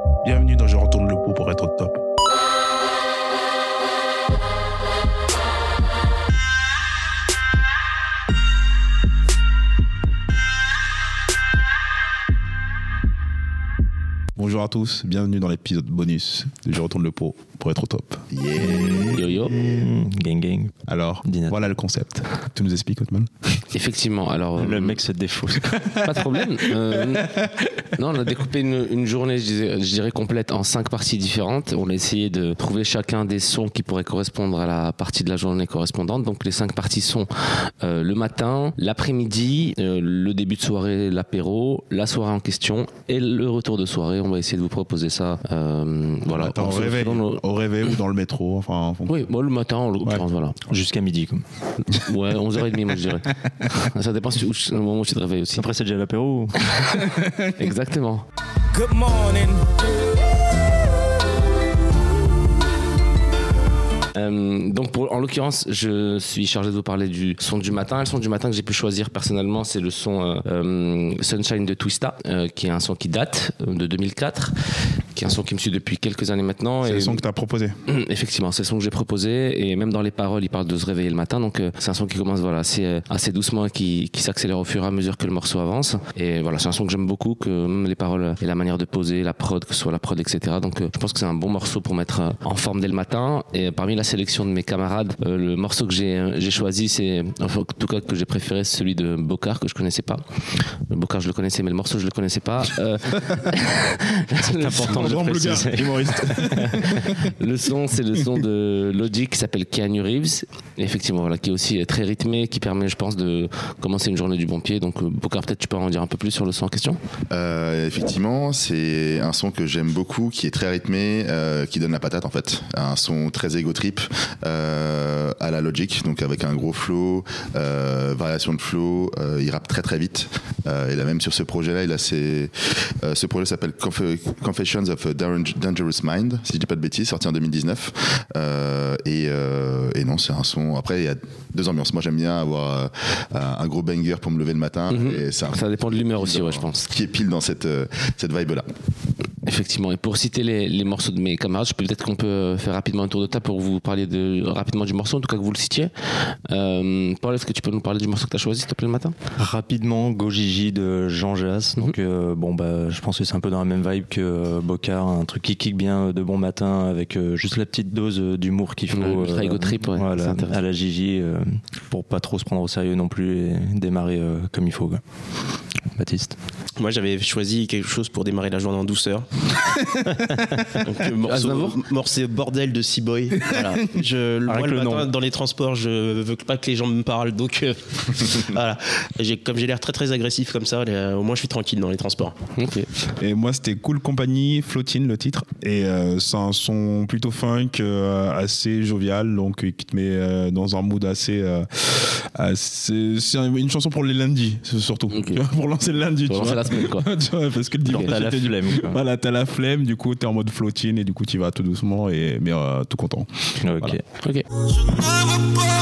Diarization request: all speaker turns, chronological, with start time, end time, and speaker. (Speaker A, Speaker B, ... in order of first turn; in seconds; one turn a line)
Speaker A: 0.2-2.0
Speaker A: 14.4-18.2
Speaker B: 18.3-19.2
Speaker C: 18.6-21.7
Speaker D: 19.1-19.6
Speaker A: 20.9-23.6
Speaker D: 23.7-25.0
Speaker C: 24.6-25.8
Speaker A: 25.8-26.6
Speaker D: 26.0-27.4
Speaker A: 27.1-27.7
Speaker D: 27.9-47.4
Speaker A: 46.3-49.2
Speaker D: 49.1-50.6
Speaker C: 50.7-51.4
Speaker D: 51.8-55.7
Speaker C: 55.5-56.6
Speaker D: 56.6-57.0
Speaker A: 56.9-57.7
Speaker D: 57.6-58.2
Speaker D: 58.8-59.6
Speaker D: 64.1-74.5
Speaker D: 75.2-77.2
Speaker A: 76.8-77.8
Speaker D: 77.9-105.6
Speaker C: 104.3-107.1
Speaker A: 104.9-107.3
Speaker D: 106.8-117.0
Speaker B: 117.3-148.7
Speaker D: 144.9-146.9
Speaker D: 149.5-159.2
Speaker C: 159.4-175.0
Speaker D: 168.9-170.6
Speaker C: 175.9-176.4
Speaker E: 176.8-179.3
Speaker A: 179.7-180.7
Speaker E: 180.8-192.4
Speaker D: 181.2-181.8
Speaker A: 183.4-183.8
Speaker C: 184.5-185.1
Speaker D: 192.6-192.9
Speaker A: 193.2-214.0
Speaker D: 205.1-205.4
Speaker D: 206.3-207.1
Speaker C: 207.9-209.0
Speaker C: 213.6-214.0
Speaker D: 214.2-214.5